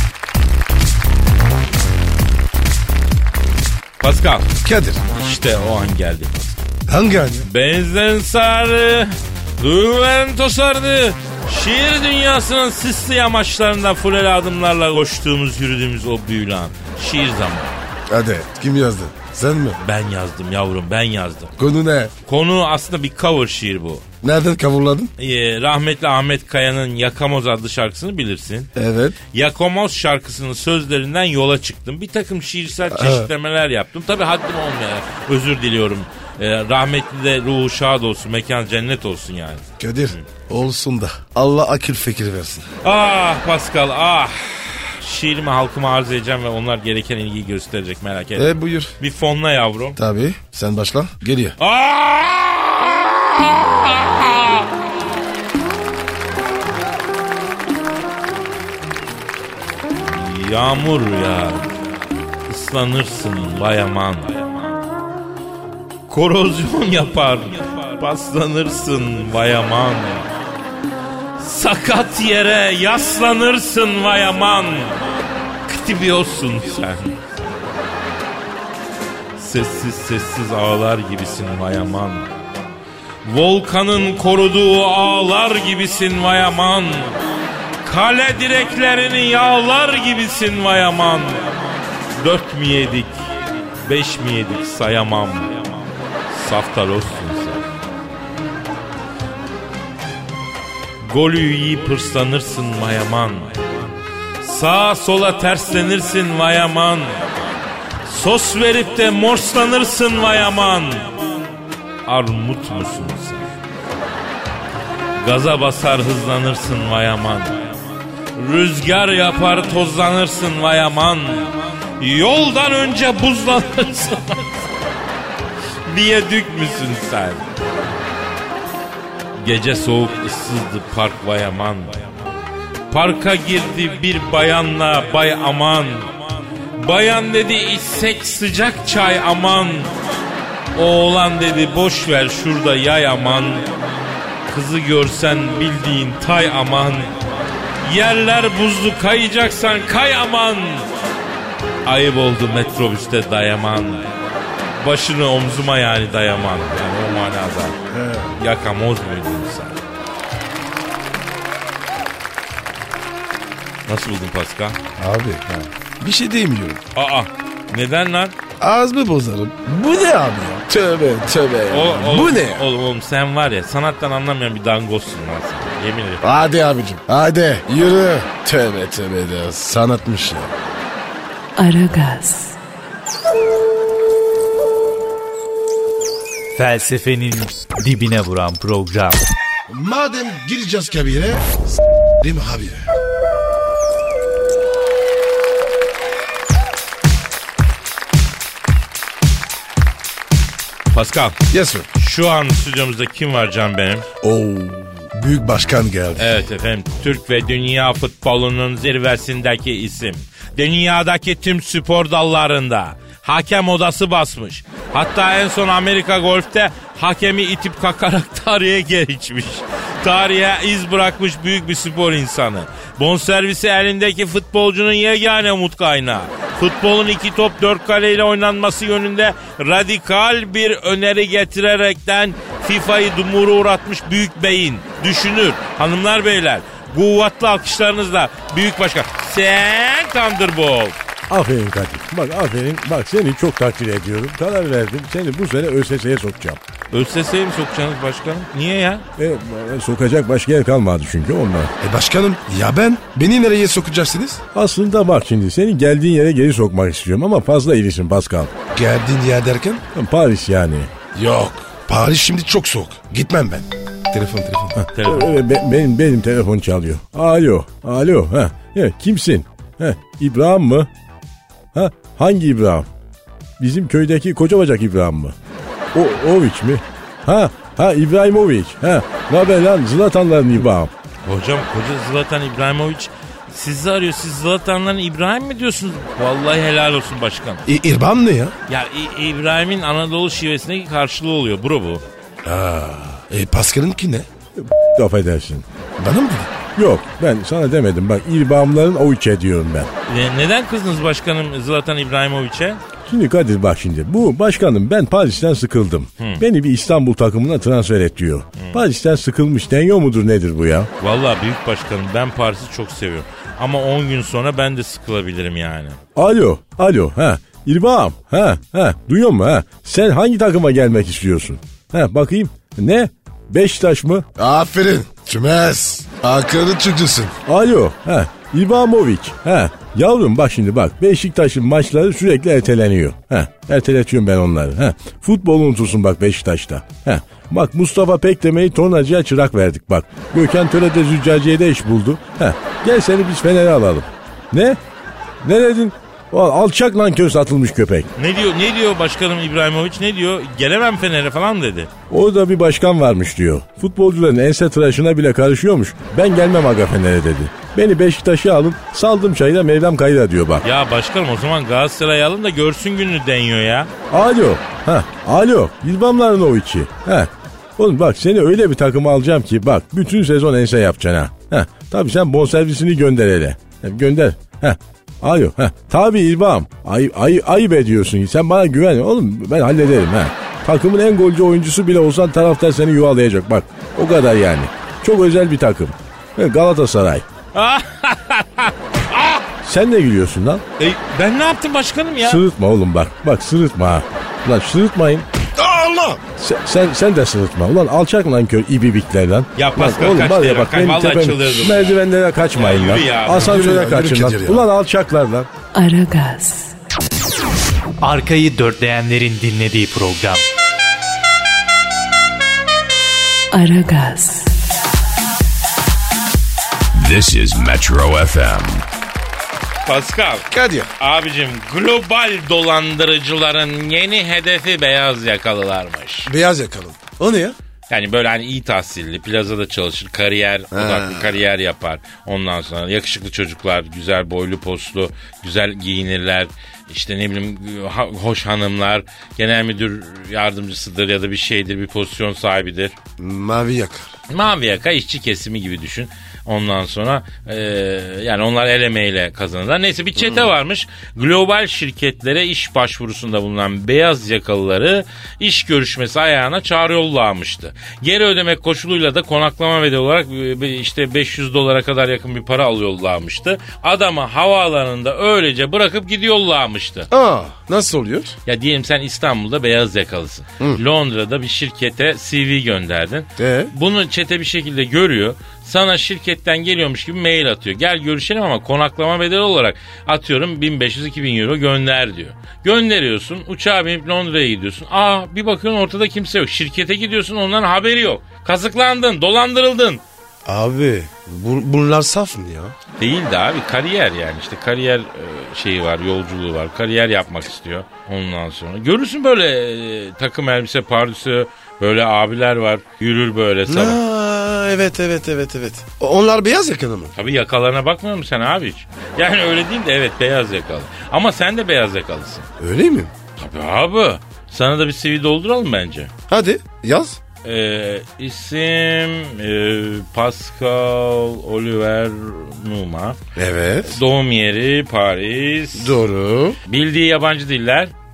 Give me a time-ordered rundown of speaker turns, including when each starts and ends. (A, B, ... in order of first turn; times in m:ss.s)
0:04.0-0:04.5 A
0:04.6-0:05.0 B
0:05.1-0:06.6 A
0:06.9-0:07.5 B
0:07.4-0:17.8 A
0:18.1-0:19.8 B
0:19.8-0:21.5 A
0:21.6-0:22.1 B
0:22.3-0:24.0 A
0:24.2-0:25.1 B
0:25.2-0:28.7 A
0:28.8-0:29.2 B
0:29.3-0:40.2 A
0:32.9-0:33.3 B
0:39.8-0:42.7 B
0:42.8-0:50.0 A
0:48.4-0:48.9 B
0:50.0-0:51.6 B
0:51.6-0:54.8 A
1:00.0-1:01.8 A
1:02.5-1:04.8 A
1:06.1-1:10.3 A
1:11.4-1:15.0 A
1:15.6-1:17.3 A
1:19.4-1:22.3 A
1:23.2-1:27.2 A
1:27.8-1:31.5 A
1:32.2-1:33.2 A
1:33.8-1:35.7 A
1:36.3-1:37.7 A
1:41.0-1:43.6 A
1:44.4-1:47.3 A
1:48.0-1:51.2 A
1:52.0-1:53.5 A
1:55.2-1:57.7 A
1:58.4-2:04.6 A
2:05.8-2:07.4 A
2:09.4-2:12.0 A
2:12.9-2:16.2 A
2:16.8-2:19.9 A
2:20.7-2:23.7 A
2:24.5-2:27.1 A
2:27.8-2:30.9 A
2:31.8-2:34.1 A
2:34.8-2:37.8 A
2:37.9-2:38.3 B
2:38.4-2:39.8 A
2:43.9-2:44.8 A
2:45.0-2:46.8 B
2:46.9-2:48.3 A
2:48.6-2:52.6 B
2:51.7-2:56.2 A
2:56.2-3:00.5 B
3:01.6-3:02.6 C
3:06.5-3:09.2 D
3:09.7-3:11.5 B
3:12.2-3:12.8 B
3:20.9-3:21.4 A
3:21.5-3:21.9 B
3:22.0-3:24.0 A
3:24.2-3:26.3 B
3:26.2-4:01.0 A
4:01.3-4:06.6 E
4:06.9-4:09.0 A
4:09.2-4:11.7 E
4:11.8-4:14.4 B
4:14.5-4:18.5 E
4:18.7-4:19.8 B
4:19.9-4:20.9 E
4:21.1-4:24.8 B
4:24.9-4:25.4 A
4:25.0-4:30.9 E
4:31.7-4:32.9 E
4:33.6-4:35.3 E
4:35.9-4:40.9 E
4:41.2-4:47.6 A
4:47.7-4:48.5 B
4:48.7-4:52.0 A
4:52.4-4:54.3 B
4:54.6-4:55.6 E
4:56.0-4:56.6 B
4:56.8-4:59.9 E
5:00.1-5:02.8 A
5:03.0-5:10.9 E
5:08.6-5:08.8 A
5:11.0-5:16.0 A
5:16.2-5:24.2 E
5:24.4-5:27.4 B
5:27.4-5:44.8 E
5:45.4-5:48.1 E
5:48.2-5:51.9 A
5:52.1-6:00.6 E
6:00.6-6:03.9 A
6:04.1-6:27.2 E
6:27.5-6:29.4 A
6:29.6-6:30.6 E
6:30.8-6:32.4 A
6:32.2-6:35.3 E
6:35.6-6:36.2 B
6:36.4-6:45.5 E
6:39.6-6:42.0 A
6:42.5-6:43.6 A
6:43.3-6:44.6 B
6:45.7-6:46.7 C
6:48.0-6:50.4 D
6:53.5-6:54.6 C
6:56.9-6:58.9 F
6:59.8-7:00.5 A
7:00.5-7:00.9 B
7:01.0-7:06.3 A
7:06.2-7:07.6 B
7:07.9-7:22.9 A
7:10.7-7:11.4 B
7:23.2-7:24.1 B
7:24.3-7:47.1 A
7:30.2-7:30.5 B
7:47.1-7:48.4 B
7:48.5-8:10.0 A
7:53.4-7:53.7 B
8:10.4-8:12.7 B
8:13.0-8:24.0 A
8:23.7-8:27.1 B
8:27.2-8:32.5 A
8:32.6-8:33.1 B
8:33.4-8:36.1 A
8:36.3-8:37.2 B
8:37.4-8:43.2 A
8:43.4-8:44.0 B
8:43.9-8:45.9 A
8:45.8-8:46.6 B
8:46.7-8:47.9 A